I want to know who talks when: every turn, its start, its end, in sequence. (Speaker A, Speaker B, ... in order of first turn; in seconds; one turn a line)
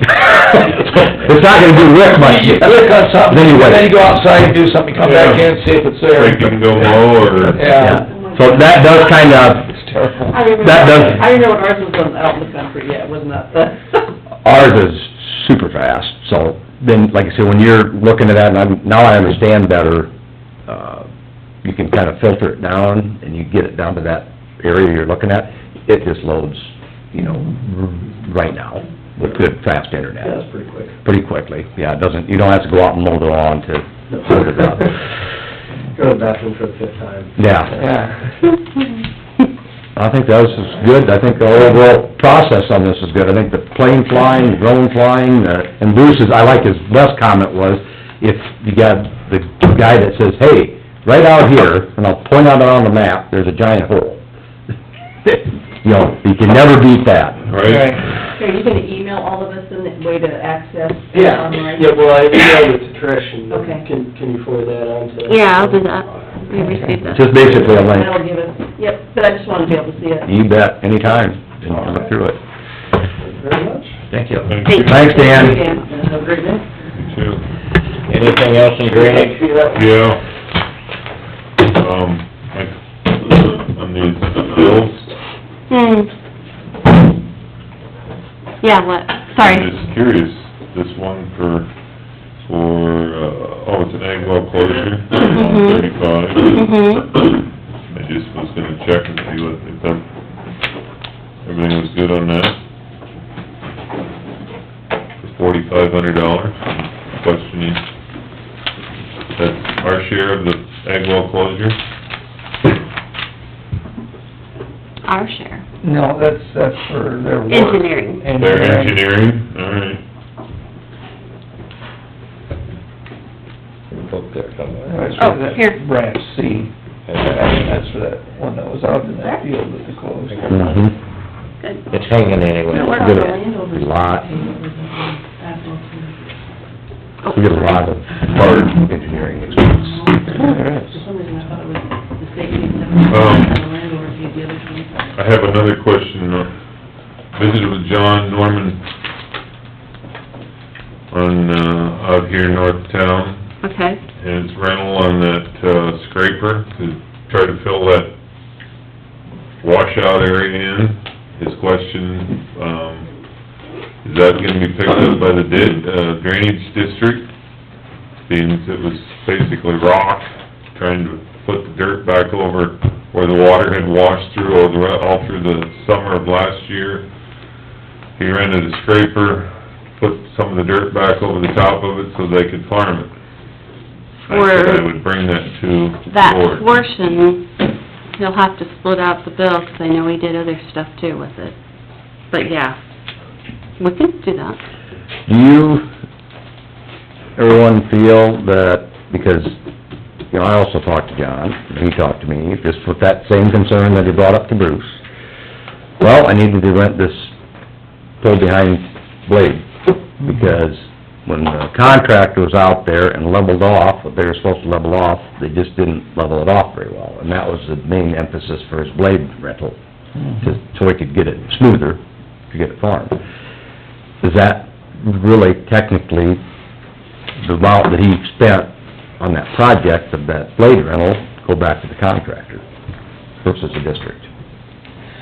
Speaker A: 0.1-3.9
Speaker B: 2.0-8.0
Speaker C: 5.0-7.8
Speaker A: 7.6-9.7
Speaker D: 8.0-9.0
Speaker B: 9.1-11.0
Speaker D: 10.3-14.0
Speaker A: 10.6-11.2
Speaker A: 14.4-20.1
Speaker A: 20.7-21.1
Speaker A: 21.6-30.4
Speaker E: 30.2-31.0
Speaker A: 31.0-35.0
Speaker E: 34.1-34.9
Speaker E: 35.9-38.0
Speaker A: 37.4-37.8
Speaker B: 37.8-38.2
Speaker A: 40.0-54.2
Speaker A: 55.2-57.4
Speaker C: 57.5-58.0
Speaker B: 57.6-58.0
Speaker D: 58.3-61.8
Speaker E: 61.1-66.3
Speaker D: 63.5-63.9
Speaker F: 65.2-67.4
Speaker B: 66.5-67.0
Speaker A: 67.1-68.1
Speaker D: 67.4-70.3
Speaker A: 70.3-72.4
Speaker E: 71.7-72.1
Speaker E: 73.2-74.0
Speaker D: 74.1-74.5
Speaker C: 74.4-75.4
Speaker F: 74.7-75.7
Speaker A: 74.7-75.6
Speaker D: 75.5-76.7
Speaker C: 77.0-77.4
Speaker D: 78.1-79.6
Speaker C: 79.7-80.2
Speaker C: 81.7-85.1
Speaker F: 85.7-86.1
Speaker F: 88.6-89.7
Speaker C: 89.4-91.7
Speaker C: 92.4-96.8
Speaker F: 95.4-95.9
Speaker F: 96.4-97.3
Speaker C: 97.9-100.0
Speaker C: 101.4-102.6
Speaker C: 105.2-107.8
Speaker C: 109.4-111.8
Speaker F: 115.0-115.6
Speaker B: 115.8-119.0
Speaker F: 117.5-118.2
Speaker C: 118.4-120.0
Speaker D: 124.0-125.3
Speaker B: 124.9-130.8
Speaker F: 125.2-125.8
Speaker A: 130.5-130.9
Speaker F: 131.6-131.9
Speaker D: 131.9-136.3
Speaker F: 132.7-133.2
Speaker A: 132.9-134.2
Speaker F: 137.2-137.8
Speaker A: 137.3-140.2
Speaker C: 138.3-138.7
Speaker D: 139.7-145.1
Speaker B: 140.4-140.9
Speaker C: 143.1-143.5
Speaker C: 145.2-146.5
Speaker C: 147.3-148.8
Speaker C: 151.1-153.4
Speaker F: 153.6-154.0
Speaker C: 154.2-158.1
Speaker C: 159.6-163.1
Speaker C: 164.0-167.3
Speaker C: 168.3-177.1
Speaker C: 178.2-183.1
Speaker F: 184.3-184.8
Speaker C: 184.3-186.7
Speaker F: 186.1-187.5
Speaker F: 188.2-191.5
Speaker F: 192.3-192.8
Speaker F: 193.8-194.6
Speaker A: 195.3-195.9
Speaker A: 197.3-199.6
Speaker A: 200.3-205.0
Speaker A: 206.0-207.3
Speaker A: 208.2-209.7
Speaker A: 210.2-219.8
Speaker A: 220.4-223.2
Speaker A: 224.2-226.4
Speaker A: 227.4-232.6
Speaker A: 233.4-234.2